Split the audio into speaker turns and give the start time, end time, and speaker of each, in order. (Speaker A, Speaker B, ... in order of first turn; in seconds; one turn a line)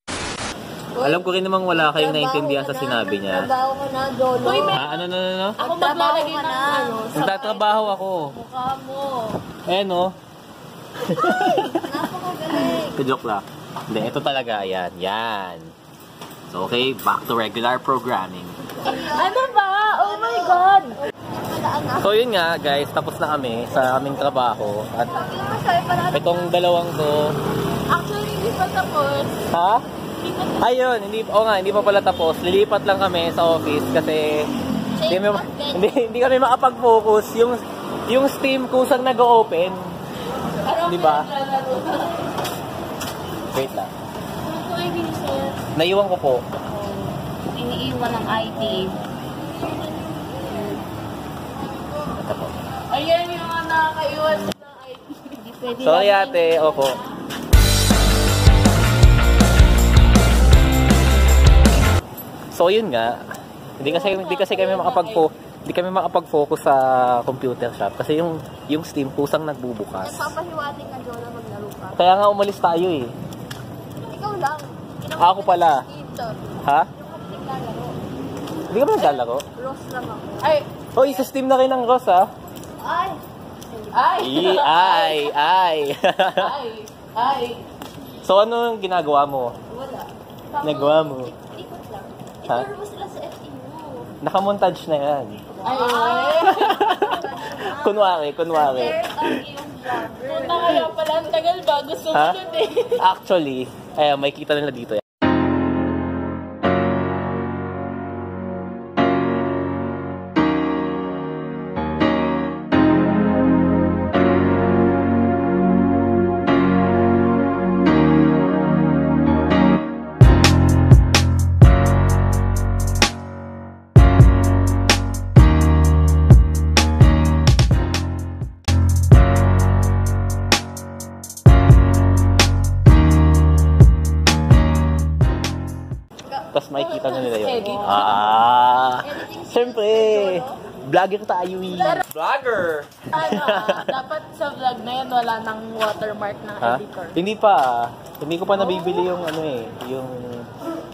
Speaker A: 0.9-4.8
Speaker B: 1.0-3.5
Speaker C: 4.4-5.0
Speaker B: 4.7-5.6
Speaker A: 5.6-7.6
Speaker C: 5.6-8.8
Speaker B: 7.2-8.3
Speaker A: 8.5-9.2
Speaker B: 9.7-10.2
Speaker B: 11.1-11.7
Speaker A: 11.1-13.0
Speaker B: 12.8-15.7
Speaker B: 16.5-18.6
Speaker A: 18.8-20.7
Speaker C: 18.9-21.0
Speaker A: 21.3-22.1
Speaker B: 22.0-25.2
Speaker A: 25.1-26.5
Speaker B: 26.1-27.3
Speaker C: 27.9-29.4
Speaker B: 29.5-29.8
Speaker C: 30.2-30.7
Speaker B: 30.6-34.4
Speaker A: 35.0-35.9
Speaker B: 35.1-39.9
Speaker C: 40.6-42.3
Speaker B: 40.8-41.3
Speaker B: 43.5-43.9
Speaker C: 44.4-45.6
Speaker B: 45.7-46.4
Speaker A: 46.7-48.9
Speaker C: 48.3-48.9
Speaker C: 50.5-50.8
Speaker B: 52.2-52.6
Speaker C: 52.9-55.4
Speaker A: 55.4-56.8
Speaker B: 55.8-57.0
Speaker C: 56.7-57.0
Speaker B: 62.5-63.2
Speaker B: 63.8-70.3
Speaker C: 63.8-65.3
Speaker A: 70.0-72.0
Speaker B: 72.0-73.1
Speaker A: 74.0-76.4
Speaker B: 75.2-75.8
Speaker B: 76.6-76.9
Speaker A: 77.0-78.0
Speaker B: 78.7-79.4
Speaker A: 79.0-81.1
Speaker C: 80.4-80.7
Speaker B: 80.9-82.3
Speaker A: 82.8-84.2
Speaker C: 83.9-85.3
Speaker B: 84.2-86.5
Speaker C: 86.4-87.7
Speaker B: 88.2-89.5
Speaker A: 89.7-94.1
Speaker B: 90.6-91.3
Speaker B: 94.2-95.5
Speaker A: 95.6-101.3
Speaker C: 95.6-97.2
Speaker B: 96.5-97.0
Speaker B: 97.6-99.2
Speaker C: 100.2-103.0
Speaker B: 102.1-102.4
Speaker B: 103.0-105.0
Speaker A: 136.3-138.3
Speaker B: 136.5-143.8
Speaker C: 137.0-138.2
Speaker A: 139.0-140.6
Speaker C: 141.7-142.0
Speaker C: 143.1-147.2
Speaker B: 146.6-150.5